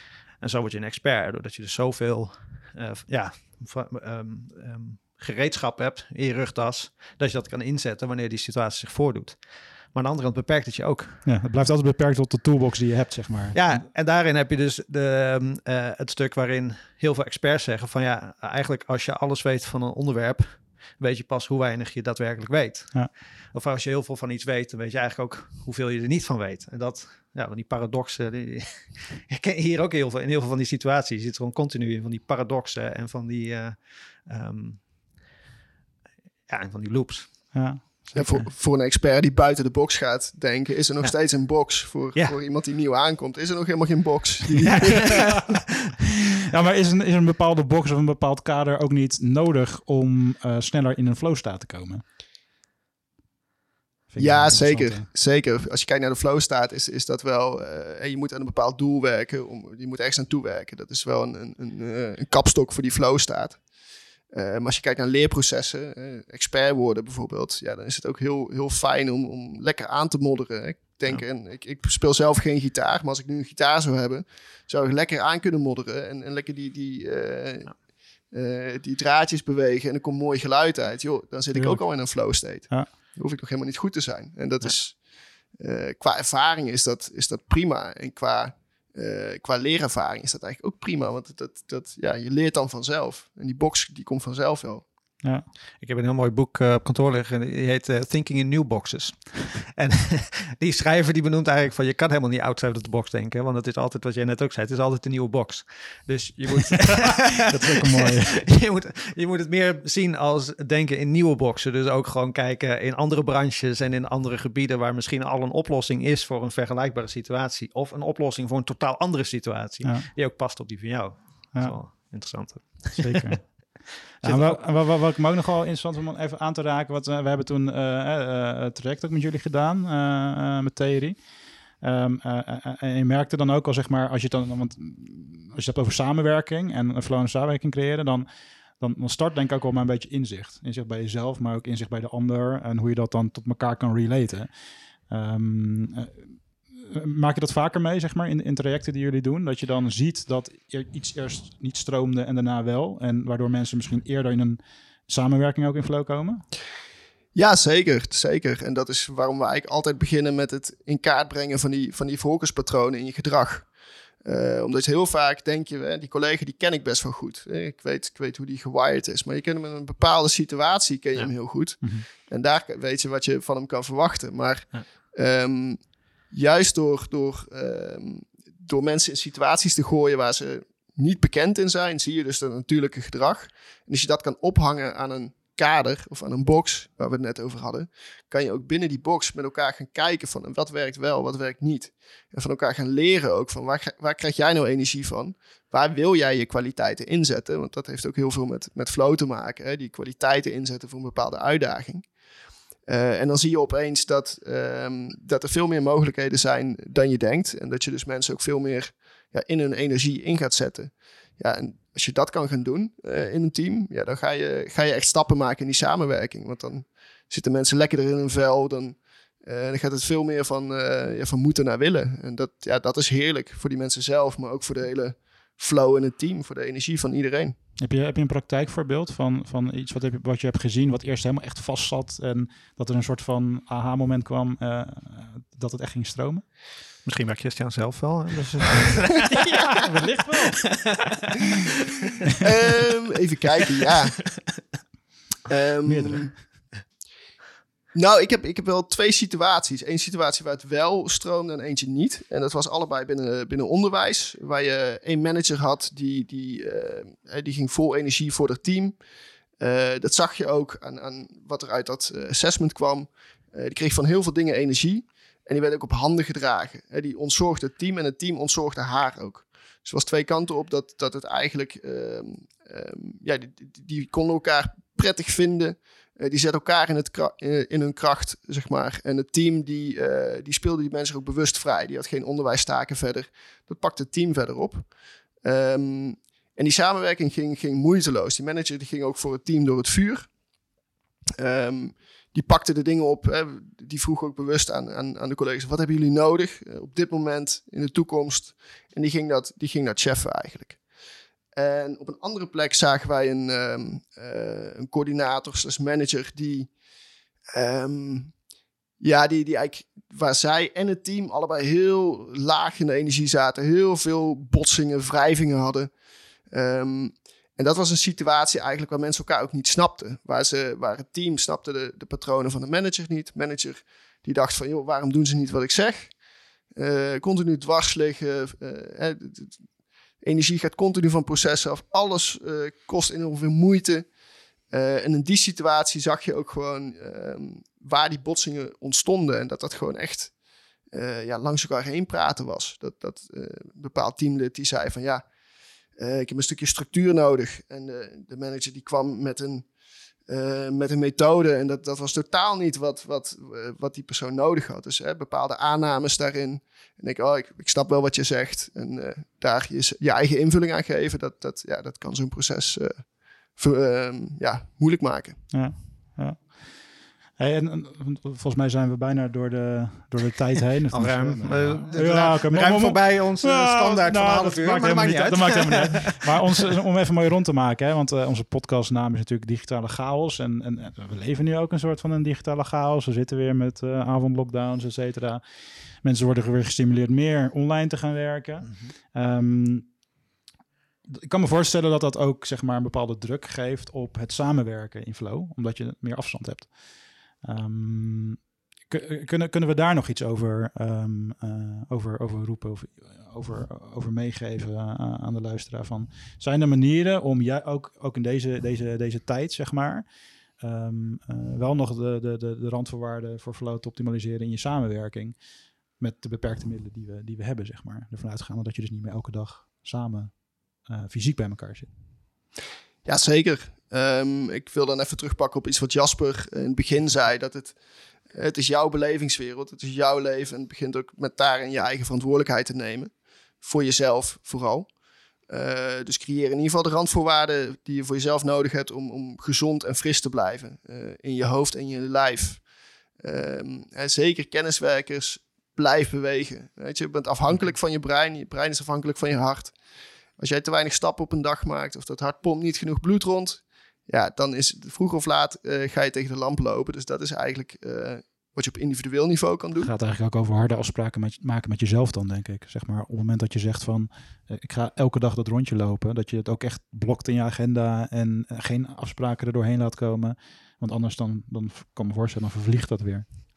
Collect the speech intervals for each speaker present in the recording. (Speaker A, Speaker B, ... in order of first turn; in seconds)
Speaker A: 0.4-11.3, 13.5-35.1, 36.5-37.9, 44.6-45.7, 95.8-124.6, 237.0-239.9, 240.4-242.1, 370.9-376.4, 388.6-388.9
Speaker B: 11.3-13.8, 37.5-38.5, 46.5-52.0, 54.1-55.1, 81.5-82.9, 107.5-108.4, 121.5-122.1, 123.0-131.2, 131.8-138.3, 138.8-144.5, 145.1-146.2, 146.8-156.4, 171.8-172.1, 227.8-236.4, 239.7-240.7, 245.8-246.4, 365.5-385.4, 386.0-389.9, 391.1-410.1, 410.6-415.4, 416.0-421.9, 459.8-473.3
Speaker C: 38.1-45.3, 54.2-63.6, 64.3-77.7, 78.3-85.0, 85.6-94.8, 157.3-163.7, 164.2-175.8, 176.3-202.1, 202.9-227.6, 242.4-244.3, 245.5-246.3, 247.9-259.0, 259.6-284.9, 285.4-290.3, 291.4-300.8, 301.6-306.7, 307.5-308.3, 309.0-315.9, 316.5-326.1, 326.8-329.5, 330.2-334.1, 334.7-340.3, 340.9-345.3, 346.0-349.7, 350.3-365.5, 423.1-427.8, 428.3-434.9, 435.5-442.6, 443.2-449.8, 450.4-459.9